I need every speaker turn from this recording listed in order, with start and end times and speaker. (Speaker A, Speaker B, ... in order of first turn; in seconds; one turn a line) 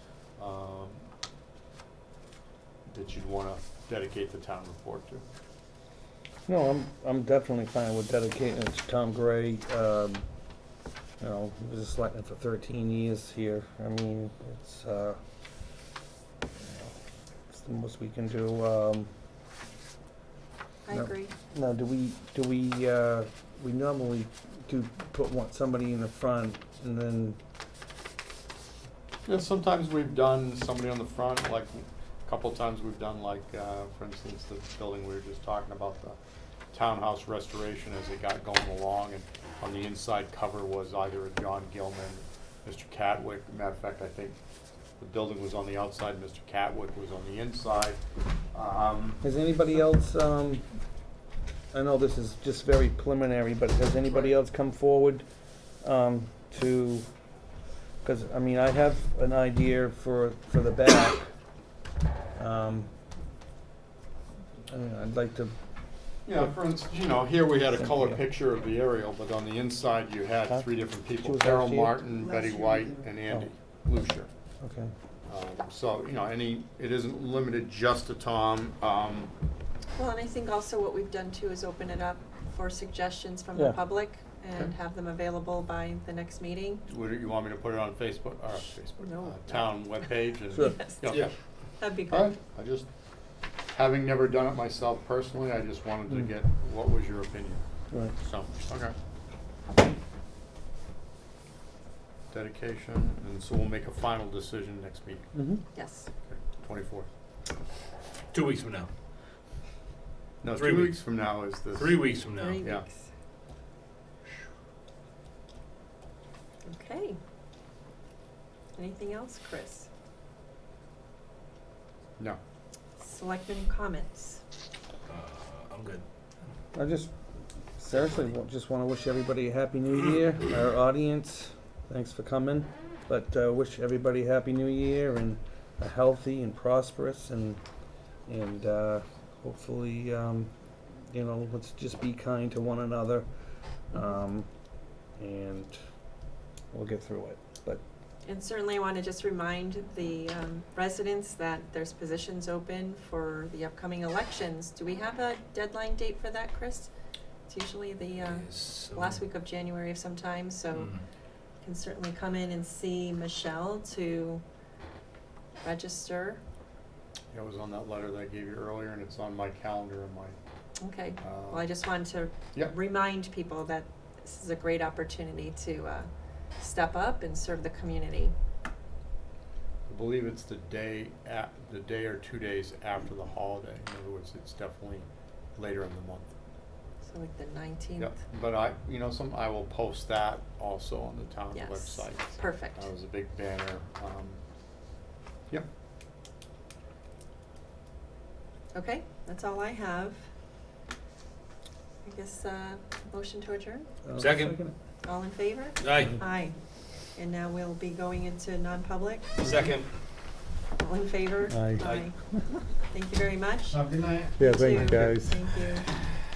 Speaker A: 0.4-1.1
Speaker A: 2.9-5.2
Speaker B: 6.5-10.2
Speaker B: 11.2-15.2
Speaker B: 16.6-17.0
Speaker B: 17.5-19.1
Speaker C: 20.9-21.3
Speaker B: 20.9-27.4
Speaker A: 29.3-36.2
Speaker A: 36.7-44.4
Speaker A: 45.0-48.0
Speaker A: 48.5-49.2
Speaker B: 49.2-50.7
Speaker B: 51.7-55.2
Speaker B: 55.8-57.1
Speaker B: 58.0-61.3
Speaker B: 62.4-62.9
Speaker B: 64.7-65.5
Speaker A: 66.3-74.3
Speaker B: 67.8-68.2
Speaker B: 71.2-72.0
Speaker B: 74.6-74.9
Speaker A: 75.3-79.3
Speaker C: 80.0-86.9
Speaker A: 86.9-91.3
Speaker C: 89.0-91.1
Speaker B: 90.5-90.8
Speaker C: 91.8-92.3
Speaker A: 92.0-92.9
Speaker A: 93.7-97.6
Speaker A: 98.1-99.0
Speaker A: 102.3-105.3
Speaker B: 105.3-105.6
Speaker C: 105.7-106.1
Speaker A: 106.3-107.1
Speaker D: 108.3-108.9
Speaker A: 110.4-112.1
Speaker D: 110.5-111.0
Speaker D: 111.8-112.7
Speaker C: 112.4-112.9
Speaker C: 116.7-117.2
Speaker C: 118.8-119.9
Speaker C: 123.0-124.4
Speaker D: 125.1-126.0
Speaker B: 126.7-127.1
Speaker B: 127.8-137.6
Speaker B: 138.3-140.5
Speaker B: 141.1-143.3
Speaker B: 143.9-144.5
Speaker B: 145.2-145.7
Speaker B: 146.7-147.8
Speaker C: 148.2-156.9
Speaker C: 157.5-161.0
Speaker D: 158.2-159.2
Speaker D: 160.8-161.0
Speaker C: 161.6-164.4
Speaker C: 165.6-166.4
Speaker A: 167.3-170.4
Speaker C: 170.8-178.3
Speaker A: 171.2-171.7
Speaker A: 179.9-186.3
Speaker C: 187.1-188.2
Speaker A: 188.0-194.4
Speaker C: 191.5-192.9
Speaker C: 198.7-200.2
Speaker C: 202.0-203.9
Speaker B: 204.1-204.8
Speaker D: 204.2-204.6
Speaker C: 205.0-206.6
Speaker D: 205.8-206.2
Speaker C: 207.1-209.6
Speaker D: 209.4-209.9
Speaker C: 210.8-212.2
Speaker B: 211.5-212.6
Speaker C: 212.9-213.8
Speaker A: 213.7-215.1
Speaker B: 214.4-215.4
Speaker C: 214.4-215.9